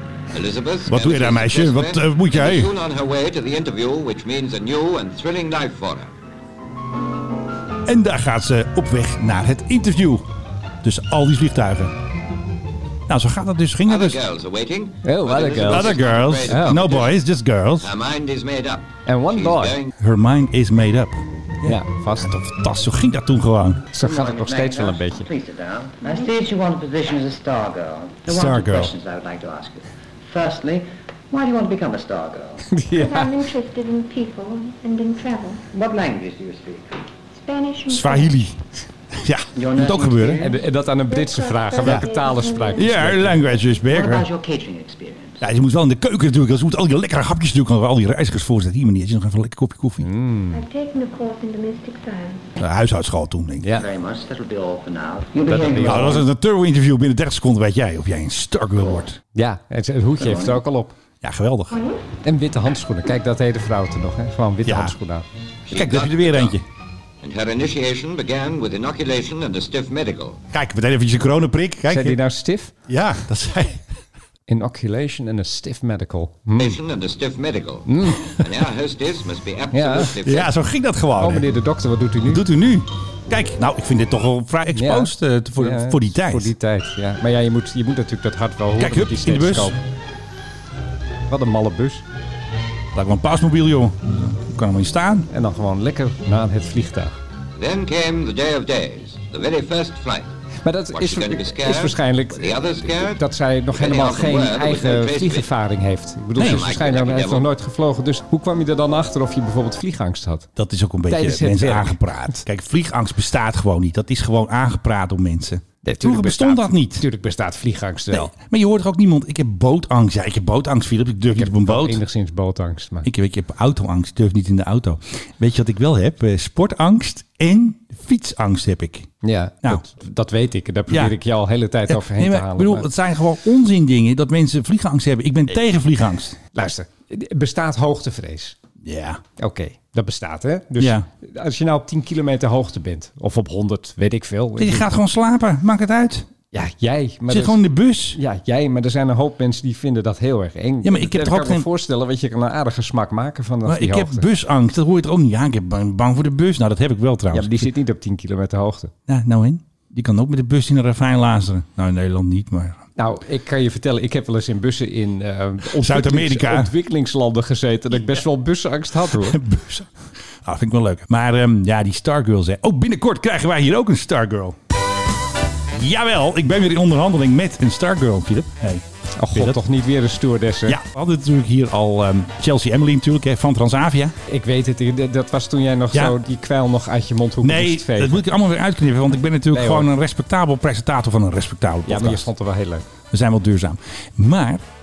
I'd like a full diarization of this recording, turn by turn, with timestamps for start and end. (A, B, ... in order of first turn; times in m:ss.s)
0:00.3-0:06.1 A
0:00.9-0:02.7 B
0:07.8-0:10.3 B
0:10.8-0:11.9 B
0:13.1-0:14.2 B
0:13.9-0:17.2 A
0:15.0-0:16.8 C
0:15.6-0:17.9 B
0:17.8-0:19.9 A
0:19.0-0:19.8 C
0:20.0-0:23.9 B
0:21.6-0:22.4 C
0:23.9-0:25.3 C
0:23.9-0:32.7 D
0:26.0-0:26.3 E
0:28.3-0:28.9 C
0:32.7-0:33.3 C
0:32.9-0:35.6 E
0:35.7-0:37.0 D
0:37.3-0:38.4 E
0:37.9-0:38.5 B
0:39.1-0:40.4 B
0:39.5-0:40.6 D
0:40.4-0:43.4 C
0:41.1-0:43.2 E
0:41.8-0:42.0 B
0:42.8-0:44.3 B
0:43.8-0:45.4 D
0:45.4-0:50.1 B
0:50.0-0:50.6 C
0:50.5-0:52.4 E
0:52.6-0:53.7 B
0:53.6-0:53.8 C
0:53.7-0:56.2 D
0:55.4-0:56.2 C
0:55.8-0:59.2 B
0:59.3-1:00.9 C
1:00.2-1:00.6 D
1:01.2-1:01.8 B
1:02.2-1:05.2 C
1:04.6-1:04.9 B
1:05.7-1:06.6 A
1:05.7-1:06.6 B
1:07.2-1:10.4 A
1:10.5-1:12.2 B
1:11.9-1:12.7 C
1:12.9-1:13.8 B
1:14.5-1:16.8 C
1:16.6-1:20.5 A
1:17.8-1:18.3 C
1:19.7-1:20.1 C
1:20.2-1:21.5 B
1:21.2-1:22.4 C
1:22.2-1:26.5 B
1:24.7-1:29.8 C
1:28.8-1:29.8 B
1:31.3-1:32.0 C
1:32.9-1:35.3 B
1:35.3-1:37.1 C
1:37.6-1:40.3 A
1:40.6-1:50.5 C
1:40.9-1:43.2 A
1:43.7-1:45.5 A
1:46.4-1:46.7 B
1:46.4-1:47.5 A
1:50.6-1:57.0 B
1:51.1-1:52.4 C
1:55.8-1:58.3 C
1:58.1-2:02.0 B
2:01.3-2:03.1 C
2:03.0-2:09.1 B
2:09.2-2:12.9 C
2:10.9-2:11.1 B
2:11.9-2:16.4 B
2:16.5-2:18.6 C
2:18.8-2:19.2 B
2:19.4-2:24.9 C
2:20.8-2:21.1 B
2:24.6-2:26.3 B
2:26.5-2:27.6 C
2:27.3-2:28.2 B
2:28.1-2:34.3 C
2:30.8-2:31.6 B
2:33.6-2:37.7 B
2:37.3-2:38.9 C
2:39.1-2:42.8 B
2:43.0-2:49.4 C
2:45.7-2:46.7 B
2:49.1-2:49.9 B
2:50.4-2:54.6 B
2:55.7-2:59.6 B
2:59.2-3:00.8 C
3:00.6-3:04.1 B
3:04.2-3:08.2 C
3:07.4-3:12.3 B
3:09.5-3:09.9 C
3:11.8-3:12.8 C
3:13.1-3:14.6 B